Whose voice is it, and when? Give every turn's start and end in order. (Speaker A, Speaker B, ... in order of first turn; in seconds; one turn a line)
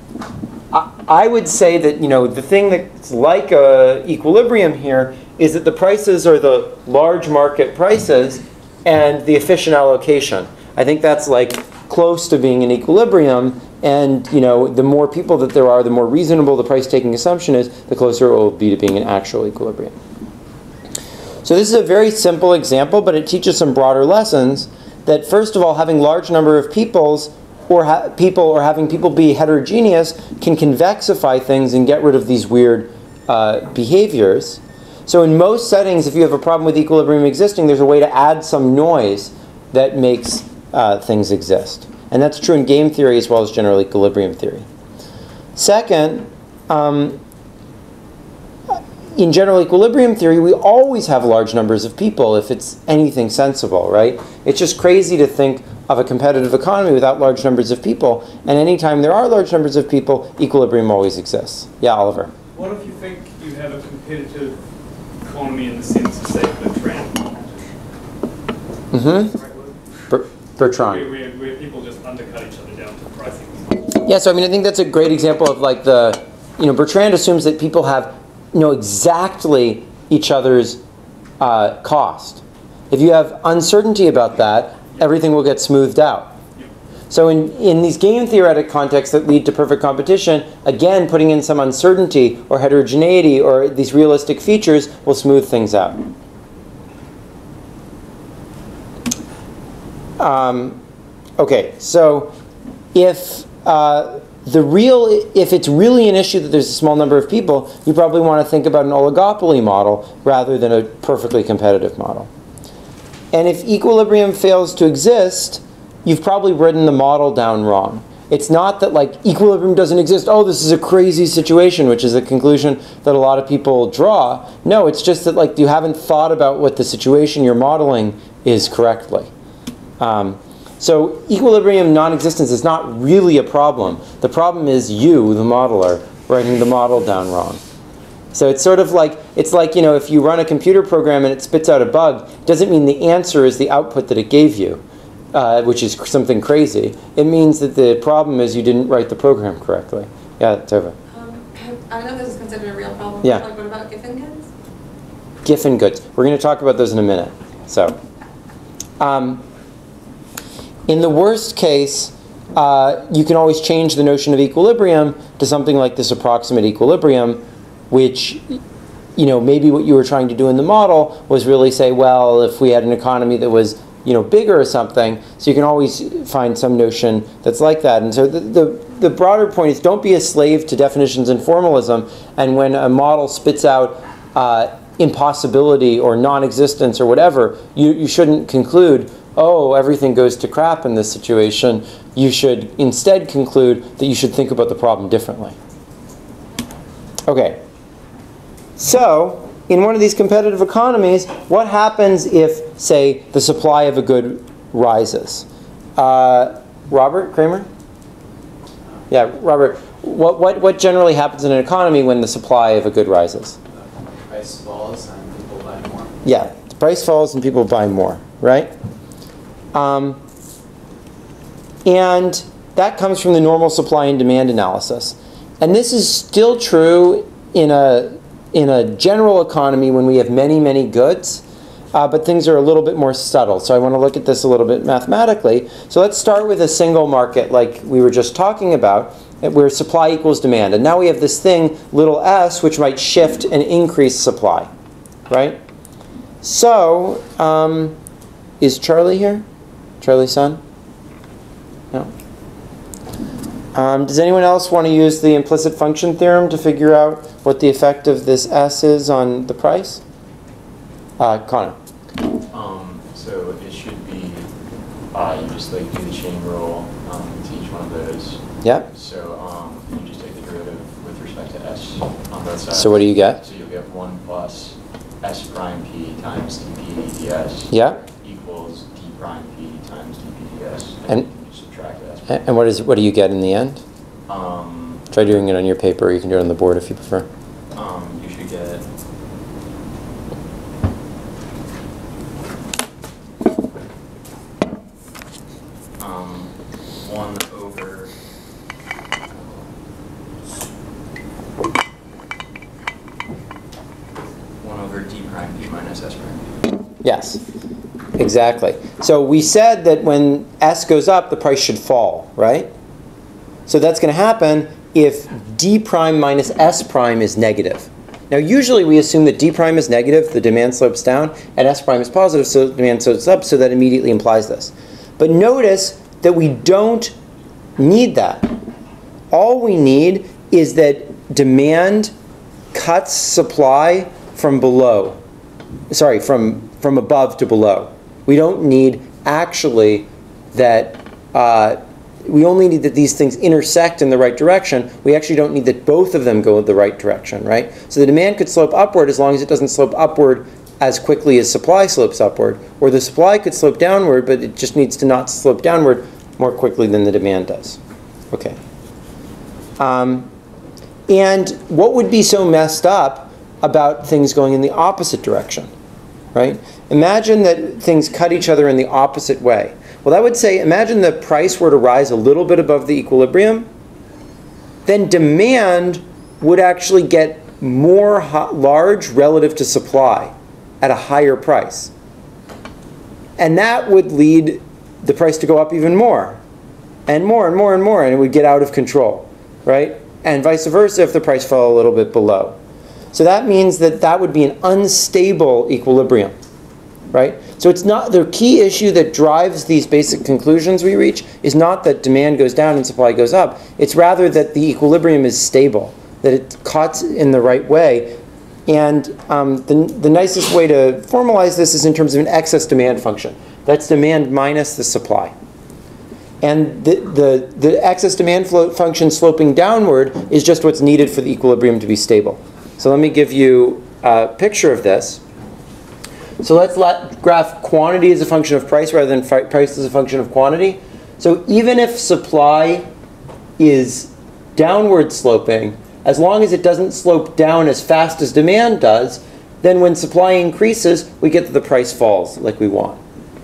Speaker A: 0.7-19.9
Speaker A: 21.4-44.6
Speaker A: 45.5-47.2
Speaker A: 48.7-62.3
Speaker B: 62.5-64.6
Speaker B: 65.2-67.7
Speaker A: 68.9-69.3
Speaker B: 69.0-69.7
Speaker A: 70.1-71.0
Speaker B: 70.7-73.9
Speaker A: 74.0-80.8
Speaker A: 81.4-86.3
Speaker A: 87.1-96.0
Speaker A: 100.2-100.8
Speaker A: 101.4-102.3
Speaker A: 102.9-112.3
Speaker A: 113.3-129.3
Speaker A: 130.0-137.6
Speaker A: 138.3-144.8
Speaker A: 145.3-150.9
Speaker C: 151.1-154.5
Speaker A: 155.4-158.0
Speaker A: 159.0-159.4
Speaker A: 160.9-168.6
Speaker A: 169.2-195.6
Speaker A: 197.3-197.6
Speaker A: 198.8-205.4
Speaker A: 206.0-207.7
Speaker A: 209.1-213.6
Speaker D: 214.3-216.1
Speaker A: 216.2-218.7
Speaker A: 219.7-220.2
Speaker A: 221.8-231.4
Speaker A: 231.9-244.7
Speaker A: 245.3-245.6
Speaker A: 246.4-248.0
Speaker A: 248.6-249.4
Speaker A: 250.0-250.6
Speaker A: 253.7-260.0
Speaker A: 261.2-261.8
Speaker D: 262.5-264.5
Speaker D: 265.1-282.6
Speaker A: 268.6-268.9
Speaker A: 272.7-273.4
Speaker A: 277.7-278.0
Speaker A: 282.3-283.8
Speaker D: 284.3-285.1
Speaker A: 285.1-287.3
Speaker D: 287.7-288.9
Speaker D: 296.0-298.1
Speaker D: 299.3-299.7
Speaker D: 304.6-306.6
Speaker A: 307.0-307.4
Speaker A: 308.2-312.7
Speaker A: 313.7-327.1
Speaker A: 327.8-328.5
Speaker A: 329.3-332.1
Speaker A: 332.7-335.2
Speaker A: 335.9-357.8
Speaker A: 358.3-358.6
Speaker A: 359.8-360.3
Speaker A: 361.1-365.7
Speaker A: 366.3-373.7
Speaker A: 374.9-381.9
Speaker A: 383.4-386.4
Speaker A: 387.1-392.6
Speaker A: 393.1-396.3
Speaker A: 397.1-415.3
Speaker A: 416.4-425.2
Speaker A: 426.4-432.9
Speaker A: 433.6-443.0